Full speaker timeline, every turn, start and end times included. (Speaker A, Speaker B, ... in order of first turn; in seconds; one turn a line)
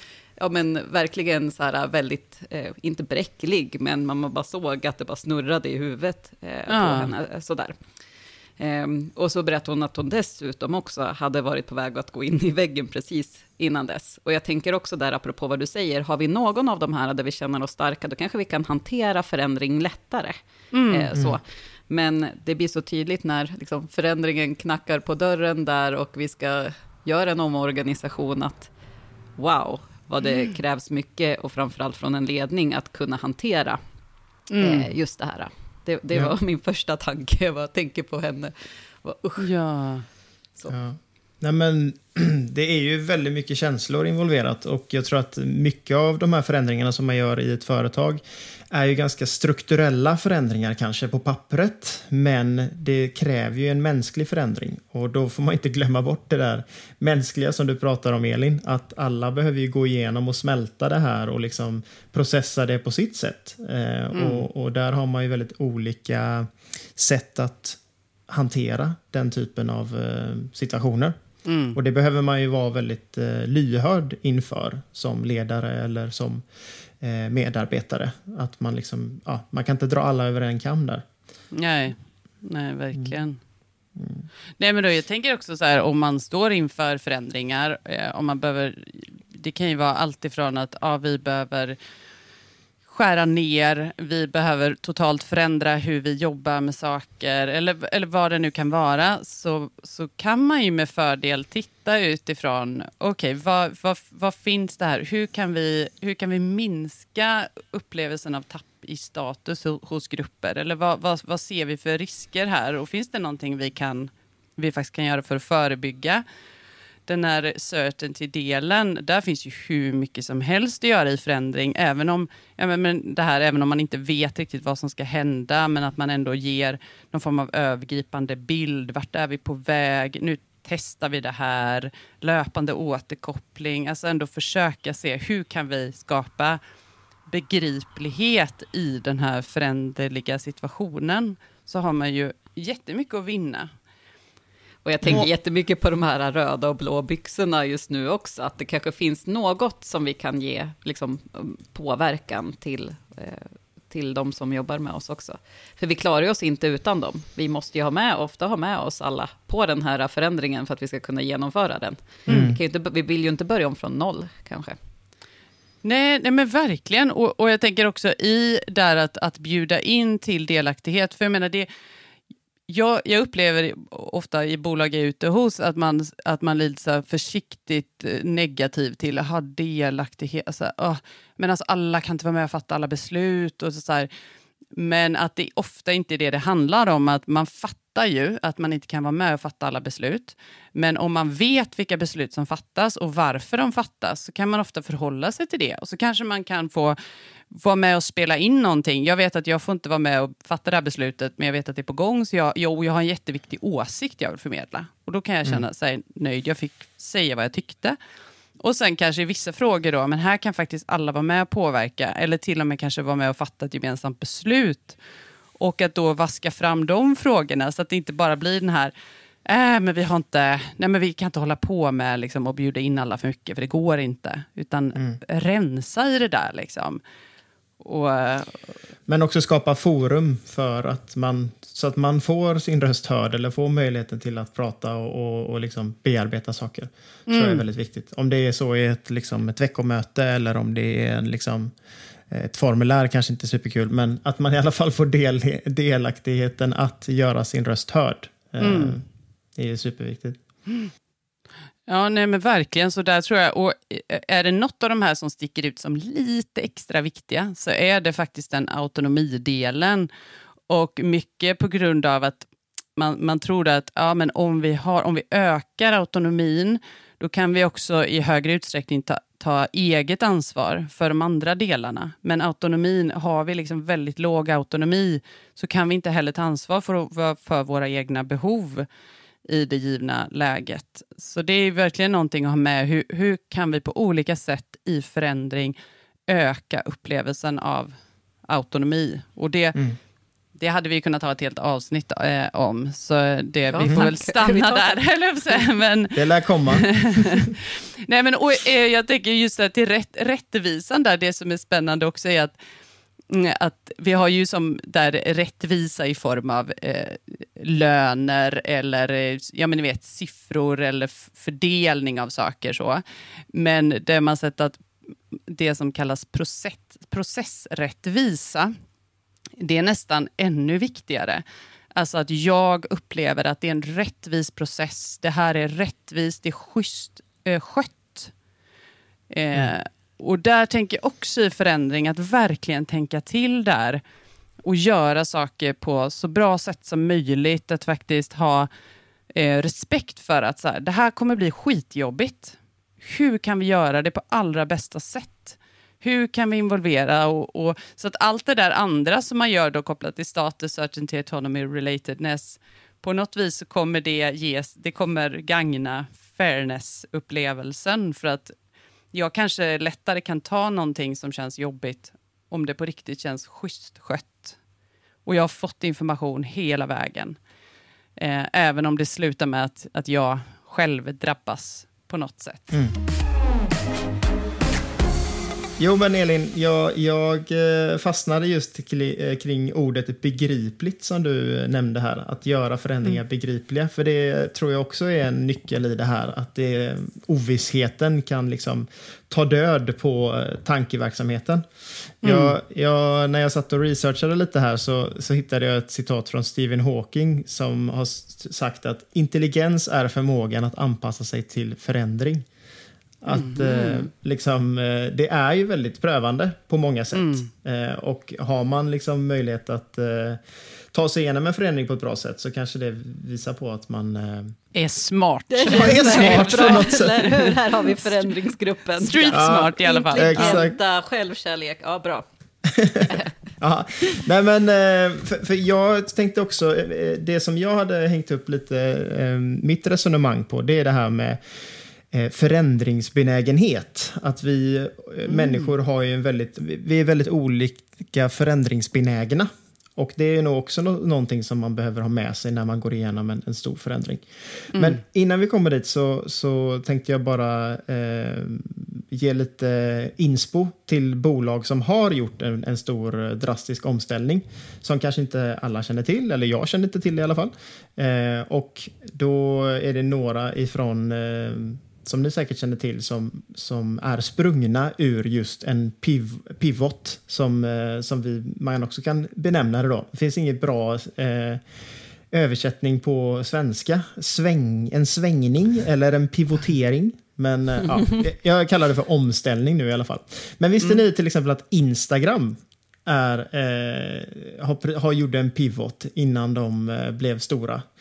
Speaker A: 0.4-7.8
Speaker B: 6.7-7.1
Speaker A: 8.6-20.4
Speaker B: 20.7-21.1
Speaker A: 20.9-28.7
Speaker A: 29.4-33.8
Speaker B: 34.5-34.9
Speaker A: 34.6-39.5
Speaker B: 39.4-40.0
Speaker C: 40.7-71.2
Speaker B: 64.1-64.4
Speaker B: 71.4-71.8
Speaker C: 71.7-76.4
Speaker C: 77.0-81.0
Speaker B: 81.5-83.4
Speaker C: 84.0-84.3
Speaker B: 84.6-91.8
Speaker B: 92.9-116.2
Speaker B: 117.0-136.6
Speaker B: 137.3-143.7
Speaker A: 144.8-164.8
Speaker C: 162.3-162.6
Speaker B: 165.8-171.7
Speaker B: 172.7-184.1
Speaker B: 184.7-197.0
Speaker B: 197.5-208.0
Speaker B: 208.6-215.0
Speaker B: 215.6-218.9
Speaker B: 219.4-227.0
Speaker B: 227.8-228.6
Speaker C: 229.1-241.7
Speaker B: 237.3-237.6
Speaker C: 242.3-249.0
Speaker B: 248.6-249.0
Speaker C: 249.6-250.4
Speaker B: 251.9-260.1
Speaker B: 260.7-278.9
Speaker B: 279.4-285.7
Speaker B: 286.3-287.9
Speaker B: 288.5-289.8
Speaker B: 290.6-296.1
Speaker A: 293.7-294.9
Speaker C: 296.1-296.9
Speaker B: 296.7-302.5
Speaker B: 303.3-314.8
Speaker B: 315.5-318.7
Speaker B: 319.6-321.4
Speaker B: 321.9-328.3
Speaker B: 329.3-334.0
Speaker B: 334.6-338.7
Speaker B: 339.3-358.5
Speaker B: 359.1-364.6
Speaker B: 365.2-367.4
Speaker B: 368.2-372.8
Speaker C: 375.8-391.6
Speaker B: 392.2-392.5
Speaker C: 392.2-402.4
Speaker C: 403.2-410.4
Speaker B: 403.3-404.1
Speaker B: 407.1-407.5
Speaker C: 410.9-414.5
Speaker B: 414.7-418.3
Speaker A: 415.5-422.2
Speaker C: 415.7-417.2
Speaker B: 419.0-420.6
Speaker C: 419.3-420.7
Speaker C: 422.6-431.4
Speaker C: 432.1-471.6
Speaker B: 435.2-435.7
Speaker C: 472.3-487.8